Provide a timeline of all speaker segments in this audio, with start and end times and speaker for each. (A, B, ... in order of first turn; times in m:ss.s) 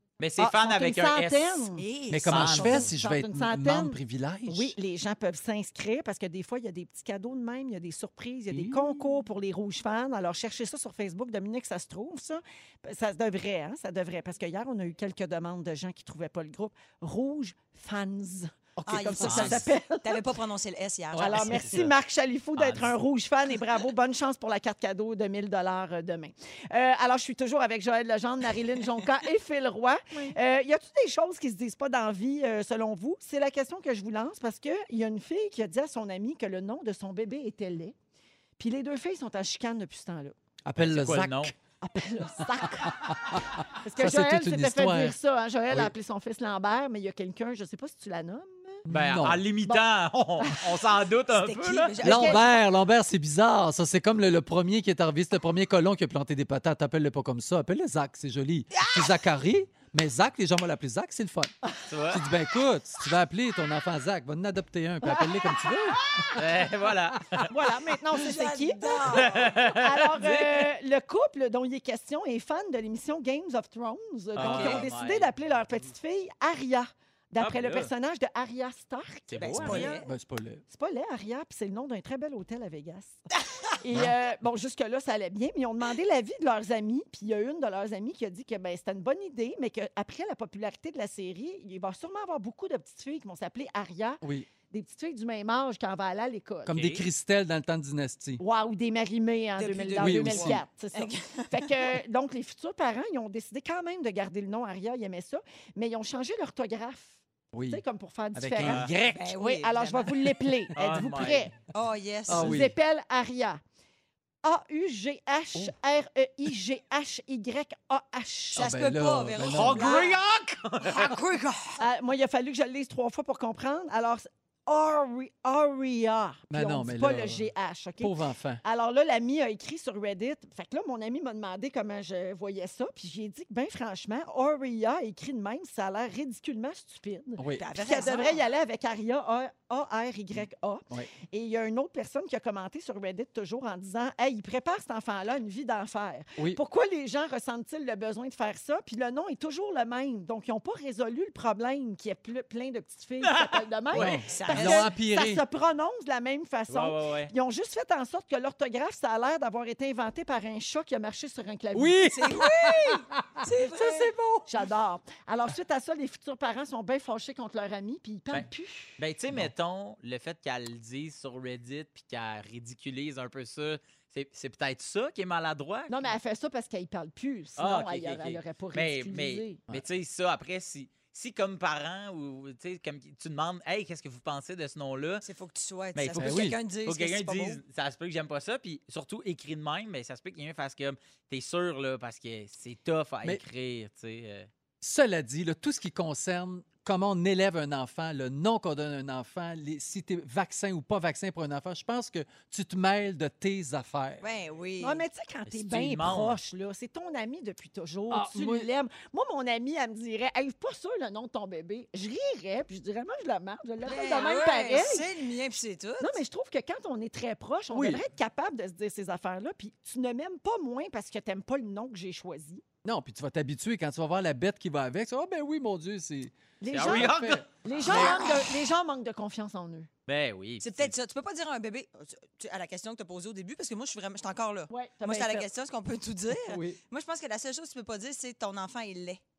0:00.2-0:01.7 A
0:00.4-0:20.2 B
0:01.8-0:02.9 C
0:02.1-0:04.8 D
0:02.3-0:02.9 A
0:08.5-0:08.8 D
0:18.9-0:21.8 C
0:19.2-0:19.6 A
0:21.2-0:38.0 B
0:21.2-0:21.9 A
0:22.6-0:23.0 A
0:38.6-0:40.4 B
0:40.6-0:41.5 D
0:40.8-0:41.5 A
0:41.8-0:48.8 B
0:42.9-0:43.4 D
0:44.0-0:45.2 D
0:48.9-0:49.4 D
0:48.9-0:52.0 A
0:50.4-0:50.7 B
0:51.3-0:52.5 C
0:52.0-1:01.5 D
0:52.1-0:52.4 B
0:58.7-0:59.1 C
1:01.9-1:02.2 A
1:02.1-1:06.4 D
1:06.4-1:07.5 A
1:07.5-1:20.0 B
1:08.1-1:09.6 C
1:09.1-1:10.7 A
1:14.4-1:15.3 A
1:14.4-1:14.8 C
1:17.4-1:17.9 A
1:19.3-1:20.0 A
1:19.4-1:20.1 C
1:19.6-1:20.6 D
1:20.7-1:23.2 B
1:23.8-1:36.7 B
1:34.2-1:34.5 D
1:36.7-1:38.4 D
1:36.7-1:37.0 A
1:38.4-1:51.6 B
1:39.6-1:41.9 C
1:40.0-1:40.6 D
1:47.5-1:47.8 D
1:48.3-1:49.2 D
1:48.6-1:48.9 A
1:49.1-1:50.1 C
1:50.8-1:51.5 A
1:51.7-1:52.6 C
1:52.3-1:52.7 D
1:52.3-1:53.6 B
1:54.4-1:58.7 B
1:58.6-2:00.1 D
1:58.6-2:00.2 C
1:59.4-2:01.2 A
2:00.8-2:01.8 C
2:01.8-2:42.4 B
2:06.5-2:07.5 D
2:08.0-2:08.6 D
2:17.4-2:17.6 D
2:17.6-2:18.4 C
2:33.2-2:34.2 A
2:33.9-2:35.4 D
2:34.2-2:34.9 C
2:36.7-2:37.3 A
2:41.7-2:44.1 D
2:42.1-2:44.5 C
2:43.8-2:49.0 B
2:49.0-2:56.1 A
2:55.9-2:59.6 B
2:57.6-3:05.3 A
3:05.2-3:07.6 C
3:06.0-3:14.5 A
3:06.2-3:06.6 D
3:14.8-3:24.2 D
3:24.2-3:25.0 C
3:24.8-3:35.1 B
3:25.5-3:26.4 A
3:28.1-3:28.7 D
3:33.8-3:36.2 C
3:36.0-3:42.6 B
3:37.7-3:38.0 D
3:42.8-3:47.4 D
3:46.6-3:49.9 B
3:46.7-3:48.1 A
3:47.9-3:48.3 C
3:50.1-3:51.0 A
3:50.6-3:59.2 C
3:54.7-3:55.5 B
3:56.3-3:56.8 D